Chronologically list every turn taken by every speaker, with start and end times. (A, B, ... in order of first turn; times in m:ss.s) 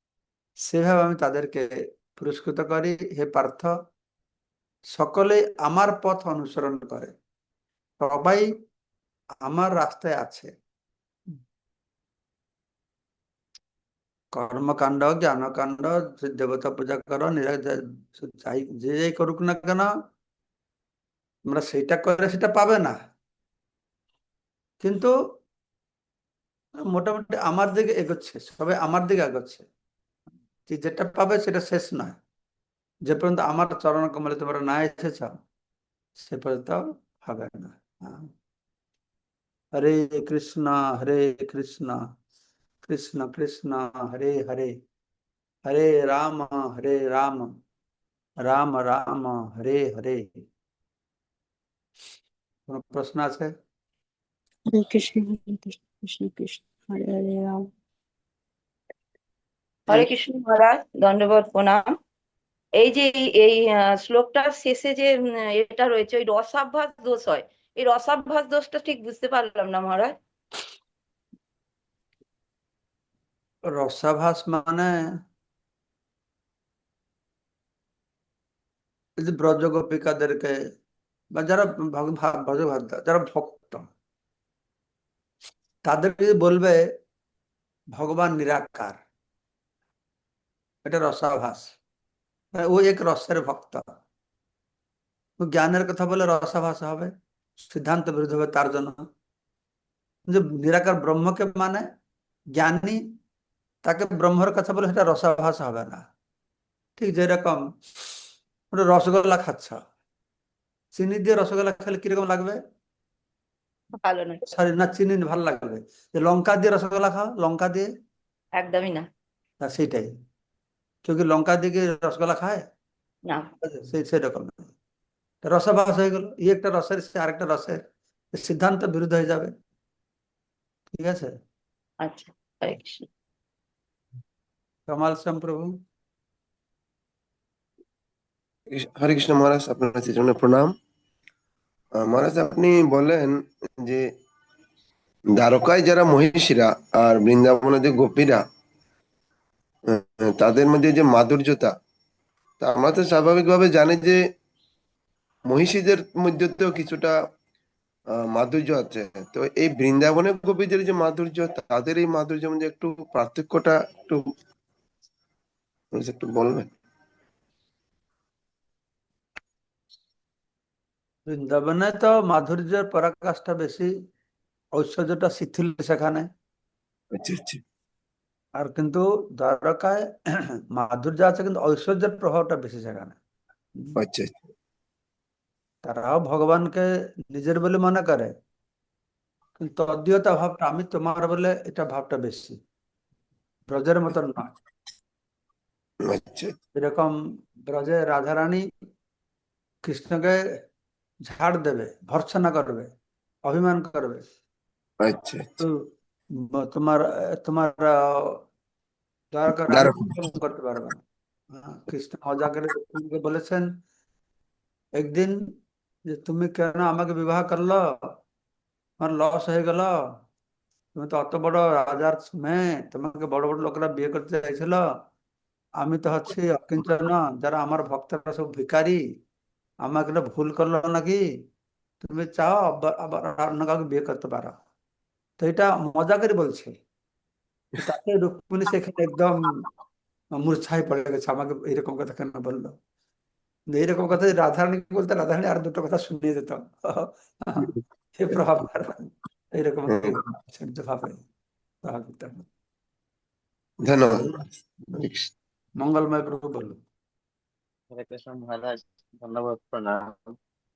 0:00.7-0:03.7 A
0:04.9-0:07.1 A
0:08.0-0:08.5 A
0:09.4-0:10.5 A
0:14.3-0:19.9 A
0:21.5-0:23.0 A
0:24.8-0:25.1 A
0:26.9-0:29.6 A
0:30.7-0:32.2 A
0:33.1-0:35.3 A
0:36.2-0:38.3 A
0:39.7-0:42.0 A
0:42.8-0:44.7 A
0:45.6-0:47.5 A
0:48.4-0:50.3 A
0:52.7-0:53.5 A
0:54.7-0:57.7 B
0:59.9-1:01.9 C
1:02.8-1:10.1 C
1:13.7-1:15.0 A
1:19.2-1:20.6 A
1:21.3-1:23.8 A
1:25.8-1:26.9 A
1:27.9-1:29.0 A
1:30.8-1:31.8 A
1:32.5-1:33.8 A
1:35.4-1:39.0 A
1:40.3-1:41.8 A
1:42.5-1:43.0 A
1:43.8-1:46.0 A
1:47.0-1:47.6 A
1:48.7-1:49.8 A
1:50.9-1:52.6 A
1:54.0-1:54.4 C
1:54.5-1:57.9 A
1:58.6-1:59.0 C
1:59.6-2:00.1 A
2:01.0-2:02.6 A
2:03.6-2:04.7 A
2:05.4-2:07.8 A
2:08.3-2:09.5 A
2:10.9-2:11.3 A
2:12.0-2:13.0 C
2:14.9-2:15.7 A
2:18.7-2:20.7 D
2:22.0-2:24.1 D
2:25.4-2:28.4 D
2:29.9-2:31.7 D
2:32.6-2:34.2 D
2:35.5-2:37.1 D
2:38.3-2:44.2 D
2:45.9-2:46.7 D
2:51.3-2:53.9 A
2:54.8-2:56.3 A
2:57.1-2:57.6 D
2:58.6-3:00.0 A
3:00.7-3:03.2 A
3:04.0-3:04.4 D
3:05.8-3:08.3 A
3:09.6-3:12.6 A
3:13.7-3:14.5 A
3:16.0-3:16.5 D
3:16.7-3:17.1 A
3:17.6-3:18.6 A
3:19.8-3:20.4 A
3:21.2-3:22.9 A
3:23.4-3:24.2 A
3:25.0-3:25.6 D
3:26.4-3:28.4 A
3:29.3-3:33.7 A
3:29.7-3:30.1 D
3:35.0-3:35.4 A
3:36.1-3:37.8 A
3:39.0-3:39.9 A
3:41.0-3:44.8 A
3:45.8-3:49.0 A
3:49.8-3:51.2 A
3:52.0-3:54.6 A
3:55.4-3:56.8 A
3:57.8-3:59.6 A
4:00.4-4:02.8 A
4:03.7-4:11.2 A
4:09.9-4:10.3 D
4:11.8-4:12.4 A
4:13.8-4:15.3 D
4:15.8-4:16.8 A
4:17.9-4:20.3 E